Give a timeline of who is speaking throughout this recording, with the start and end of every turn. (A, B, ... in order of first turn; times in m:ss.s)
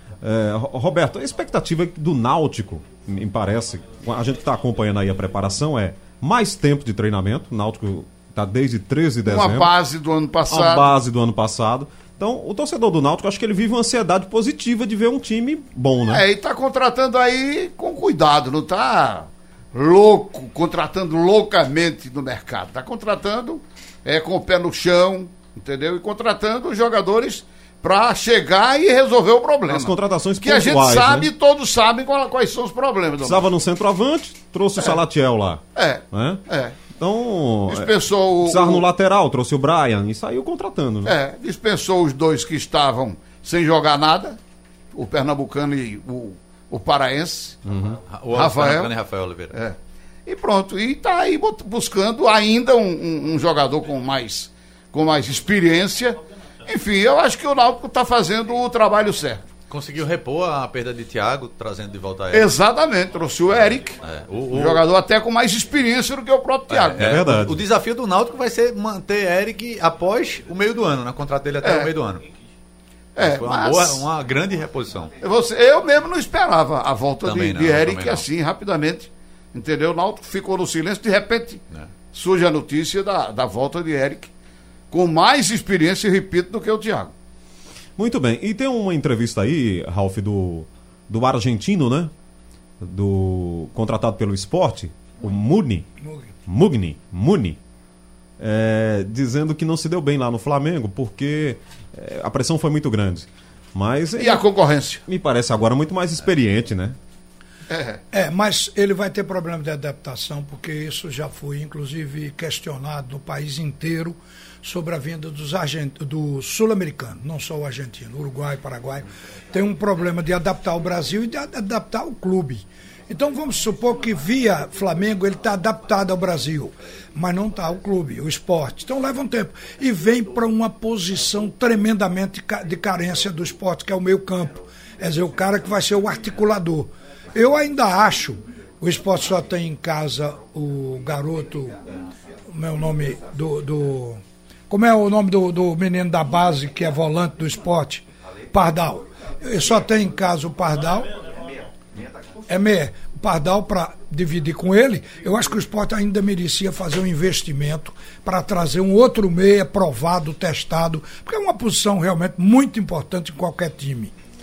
0:00.2-0:09.7 A
0:09.2-0:10.9 B
0:10.5-0:16.2 A
0:16.1-0:33.5 B
0:29.7-0:31.3 A
0:33.2-0:36.4 A
0:35.8-0:36.8 B
0:36.9-0:41.2 A
0:37.7-0:38.8 B
0:41.0-0:44.4 B
0:44.9-0:47.6 B
0:47.6-0:48.0 A
0:48.1-0:49.6 C
0:48.3-0:48.9 B
0:49.5-0:59.4 B
0:59.7-1:02.5 C
1:02.3-1:04.0 B
1:04.0-1:04.8 C
1:04.5-1:07.2 B
1:06.7-1:12.2 C
1:07.0-1:07.6 A
1:11.6-1:11.9 B
1:13.2-1:14.0 B
1:13.2-1:15.1 C
1:15.2-1:21.6 B
1:17.2-1:18.2 C
1:22.1-1:24.3 B
1:24.9-1:27.1 B
1:28.0-1:32.1 A
1:32.8-1:35.9 A
1:36.0-1:36.3 D
1:36.5-1:37.6 A
1:38.4-1:44.4 A
1:44.2-1:45.0 B
1:45.0-1:47.0 A
1:47.7-1:48.0 B
1:48.1-2:21.8 D
2:22.5-2:31.1 D
2:32.5-2:44.1 D